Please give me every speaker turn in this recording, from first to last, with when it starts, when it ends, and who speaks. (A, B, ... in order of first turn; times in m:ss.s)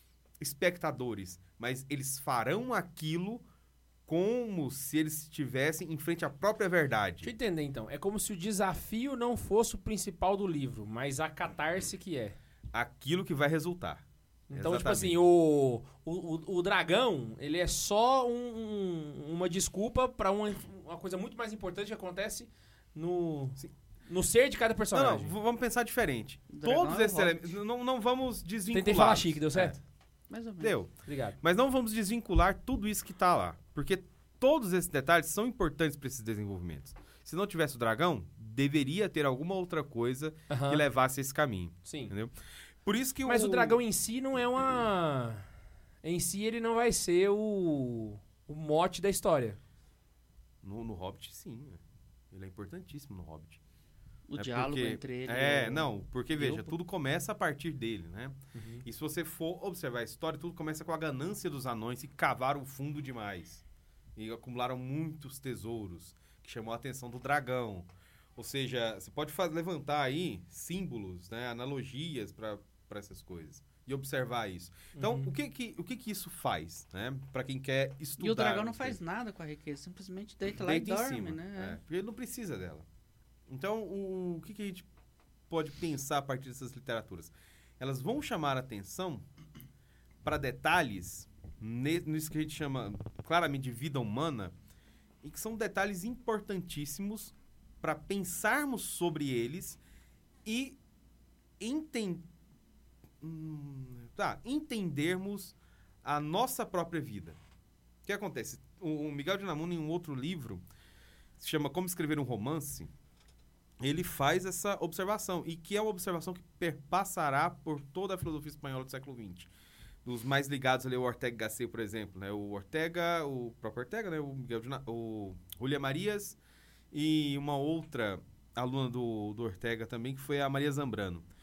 0:00.4-0:03.4 A
0:04.1-0:07.3 A
0:07.2-0:12.4 B
0:12.7-0:15.2 A
0:14.5-0:25.3 B
0:24.9-0:29.8 A
0:26.5-0:27.5 C
0:28.7-0:29.8 B
0:30.3-0:30.8 C
0:30.6-0:43.8 A
0:31.0-0:31.4 B
0:40.5-0:40.8 B
0:41.8-0:42.1 B
0:43.2-0:45.4 B
0:46.0-0:49.6 B
0:50.6-0:51.8 A
0:52.3-0:53.6 A
0:54.3-0:56.7 C
0:54.4-1:03.6 A
0:58.5-0:58.8 B
1:04.2-1:19.0 A
1:14.9-1:15.3 B
1:18.2-1:21.8 C
1:20.5-1:22.8 A
1:23.5-1:24.9 A
1:25.5-1:29.2 A
1:30.2-1:34.5 A
1:35.2-1:39.8 A
1:40.4-1:40.8 A
1:41.6-1:42.2 A
1:43.2-1:47.4 A
1:48.0-1:50.6 A
1:51.4-1:52.9 A
1:53.8-1:59.5 A
2:00.0-2:06.4 A
2:06.9-2:11.2 A